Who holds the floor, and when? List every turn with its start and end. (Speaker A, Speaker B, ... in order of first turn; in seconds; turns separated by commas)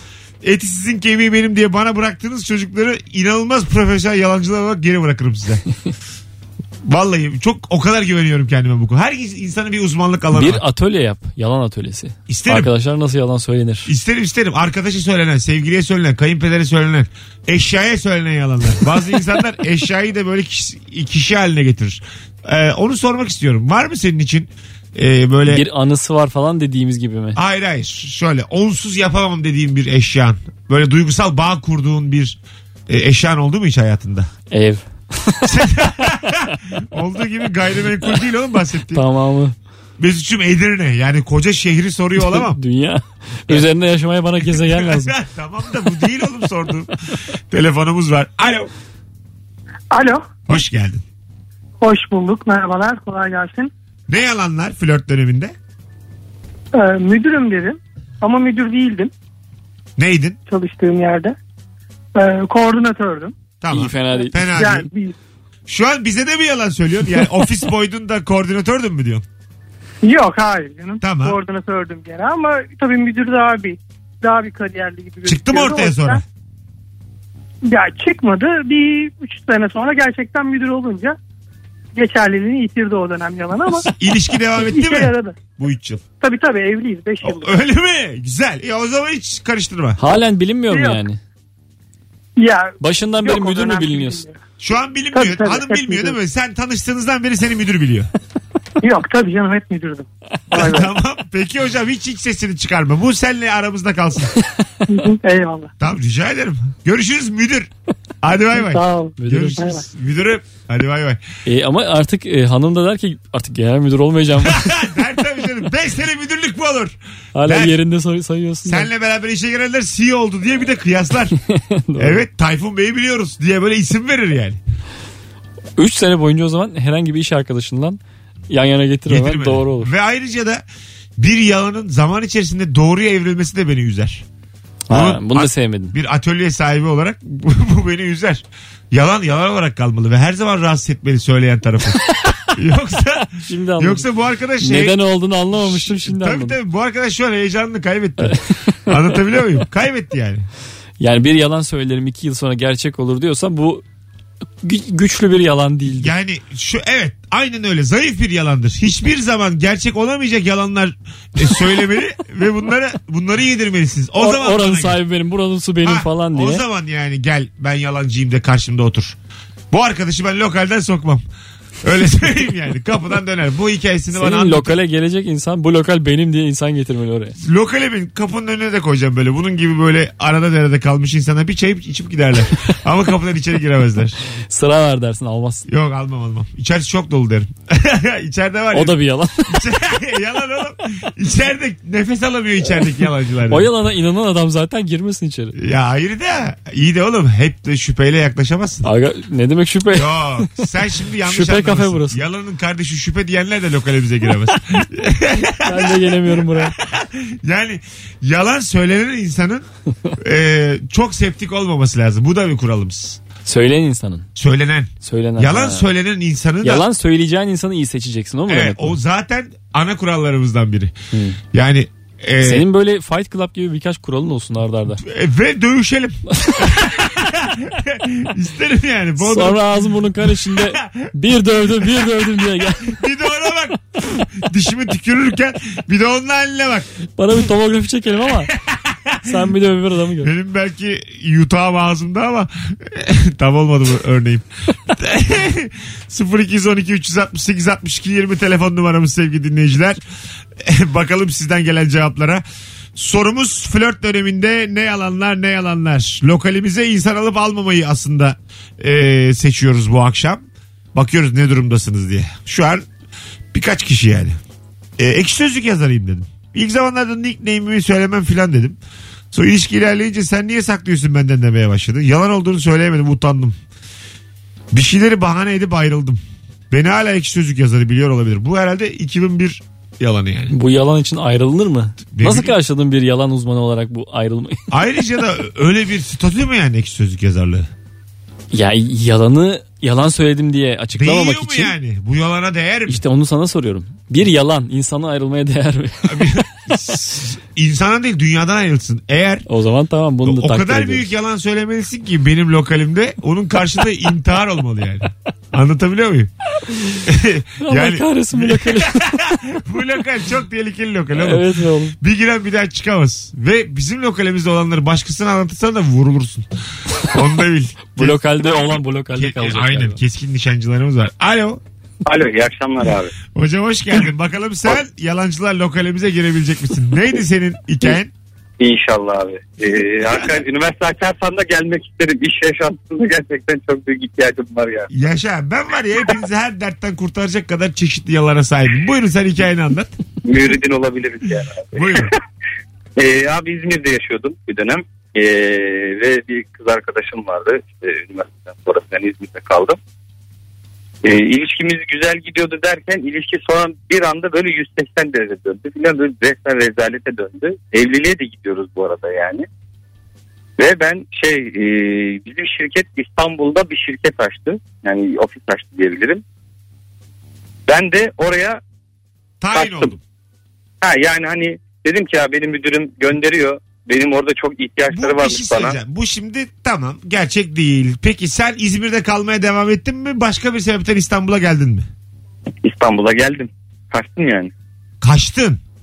Speaker A: 0.4-5.6, Speaker A: 6.8-10.6, Speaker B: 10.3-13.9, Speaker A: 12.3-12.7, Speaker A: 13.8-25.6, Speaker B: 25.4-27.4, Speaker A: 27.4-34.3, Speaker B: 34.5-35.6, Speaker A: 35.4-39.0, Speaker B: 38.9-39.5, Speaker A: 40.0-42.6, Speaker B: 42.2-45.1, Speaker A: 44.4-46.9, Speaker A: 47.5-48.7, Speaker C: 49.9-50.2, Speaker A: 50.5-51.0, Speaker C: 51.8-53.7, Speaker A: 54.1-55.5, Speaker C: 56.7-59.1, Speaker A: 60.0-60.4, Speaker C: 60.5-61.4, Speaker C: 62.1-63.3, Speaker A: 63.6-64.9, Speaker B: 63.7-64.4, Speaker C: 64.2-65.1, Speaker A: 65.7-69.2, Speaker C: 70.0-76.2, Speaker A: 71.0-71.4, Speaker A: 75.2-76.2, Speaker C: 77.7-81.2, Speaker C: 81.9-83.9, Speaker A: 83.8-86.0, Speaker C: 84.6-85.4, Speaker C: 86.2-87.6, Speaker A: 87.2-90.0, Speaker B: 90.0-91.2, Speaker C: 90.7-91.0, Speaker C: 92.4-94.4, Speaker B: 92.8-94.2, Speaker A: 94.6-98.1, Speaker C: 95.1-96.2, Speaker C: 98.8-100.9, Speaker A: 100.5-104.3, Speaker C: 104.9-105.7, Speaker A: 105.8-107.7, Speaker A: 108.2-111.2, Speaker C: 108.5-109.8, Speaker B: 109.2-109.8, Speaker B: 111.4-114.7, Speaker A: 114.4-117.8, Speaker B: 117.3-118.9, Speaker A: 118.6-121.3, Speaker B: 121.4-122.2, Speaker A: 122.0-124.6, Speaker B: 125.8-129.9, Speaker A: 129.1-130.6, Speaker A: 131.2-134.2, Speaker B: 134.9-135.9, Speaker A: 134.9-150.5, Speaker B: 143.4-144.1, Speaker B: 144.6-146.6, Speaker B: 151.0-153.8, Speaker B: 154.6-156.1, Speaker A: 155.9-165.0, Speaker B: 164.2-166.6, Speaker A: 165.8-169.2, Speaker A: 169.7-171.2, Speaker A: 171.8-174.8, Speaker B: 174.1-177.4, Speaker A: 177.4-184.2, Speaker B: 184.5-185.7, Speaker A: 185.7-193.7, Speaker B: 188.7-189.6, Speaker B: 193.5-195.5, Speaker A: 195.5-198.8, Speaker B: 198.8-200.7, Speaker A: 199.9-209.7, Speaker B: 201.2-202.2, Speaker B: 205.6-206.8, Speaker A: 210.2-213.2, Speaker B: 213.4-214.3, Speaker A: 214.3-216.8, Speaker B: 215.0-215.9, Speaker B: 216.6-219.0, Speaker A: 218.5-220.9, Speaker B: 221.1-221.4, Speaker A: 221.5-222.7, Speaker B: 222.4-225.0, Speaker A: 225.0-231.1, Speaker B: 229.2-233.0, Speaker A: 231.7-236.9, Speaker B: 237.2-238.5, Speaker A: 238.5-239.5, Speaker B: 239.2-240.3, Speaker A: 240.2-250.0, Speaker A: 250.6-252.4, Speaker A: 252.9-262.9, Speaker A: 263.5-264.4, Speaker A: 265.0-268.8, Speaker A: 269.3-273.6, Speaker A: 274.7-280.5, Speaker B: 280.5-284.6, Speaker A: 282.1-282.6, Speaker A: 284.7-287.7, Speaker B: 288.5-291.7, Speaker A: 290.9-293.0, Speaker B: 292.9-296.4, Speaker A: 296.0-299.4, Speaker B: 299.5-301.1, Speaker A: 300.2-306.3, Speaker B: 306.7-307.0, Speaker A: 307.0-316.5, Speaker B: 307.6-309.4, Speaker B: 311.1-311.9, Speaker A: 317.0-318.2, Speaker B: 317.9-320.0, Speaker A: 319.1-321.6, Speaker D: 322.0-323.1, Speaker A: 323.3-328.1, Speaker D: 328.6-334.9, Speaker A: 334.9-339.9, Speaker D: 340.2-342.1, Speaker A: 341.7-342.1, Speaker D: 343.0-349.8, Speaker D: 351.0-359.5, Speaker D: 360.6-366.2, Speaker D: 367.7-368.6, Speaker A: 369.4-370.0, Speaker D: 369.5-369.9, Speaker D: 370.8-375.8, Speaker A: 374.9-381.9, Speaker D: 382.6-384.5, Speaker A: 385.0-385.6